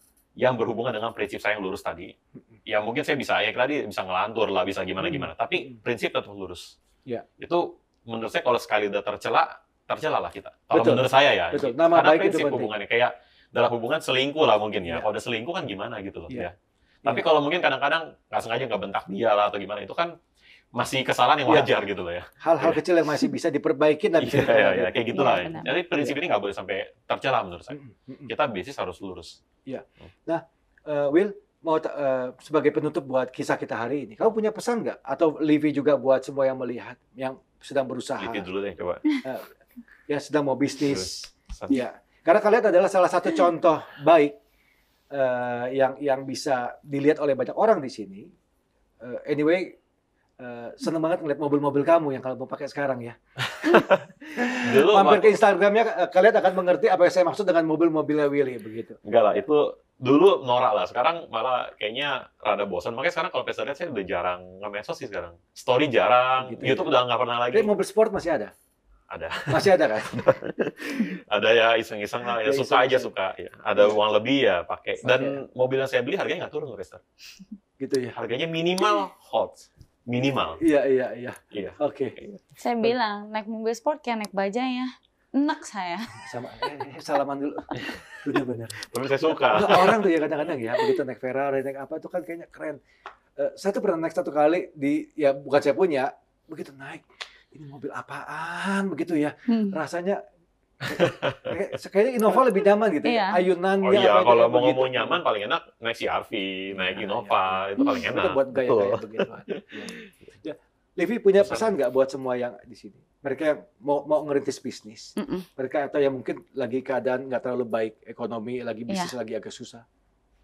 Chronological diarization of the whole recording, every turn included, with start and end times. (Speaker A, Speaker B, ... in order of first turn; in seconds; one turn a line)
Speaker A: 0.4-2.1
Speaker A: 2.7-6.8
Speaker B: 5.0-5.3
Speaker A: 7.4-16.5
Speaker B: 10.7-12.7
Speaker A: 17.1-20.1
Speaker A: 20.8-22.8
Speaker B: 21.5-21.7
Speaker B: 22.4-25.4
Speaker A: 24.2-29.4
Speaker C: 25.1-25.7
Speaker B: 27.7-28.3
Speaker B: 29.7-38.5
Speaker A: 38.2-39.0
Speaker B: 40.1-44.4
Speaker A: 40.8-41.8
Speaker B: 45.1-48.3
Speaker B: 49.0-49.8
Speaker B: 50.4-59.0
Speaker A: 53.5-54.0
Speaker A: 54.6-55.4
Speaker A: 59.0-67.7
Speaker B: 66.4-66.9
Speaker B: 67.5-68.5
Speaker A: 69.1-77.0
Speaker B: 69.5-70.3
Speaker B: 72.4-73.1
Speaker B: 75.0-75.4
Speaker B: 77.8-78.2
Speaker A: 78.2-80.6
Speaker B: 80.6-82.2
Speaker A: 81.5-82.4
Speaker C: 82.6-86.1
Speaker B: 86.2-92.8
Speaker A: 87.8-90.0
Speaker B: 93.4-100.2
Speaker C: 99.5-99.8
Speaker B: 100.8-105.2
Speaker A: 100.9-101.5
Speaker C: 103.0-103.4
Speaker A: 103.8-110.1
Speaker B: 106.7-119.8
Speaker C: 107.8-108.1
Speaker A: 111.4-111.7
Speaker C: 115.2-115.5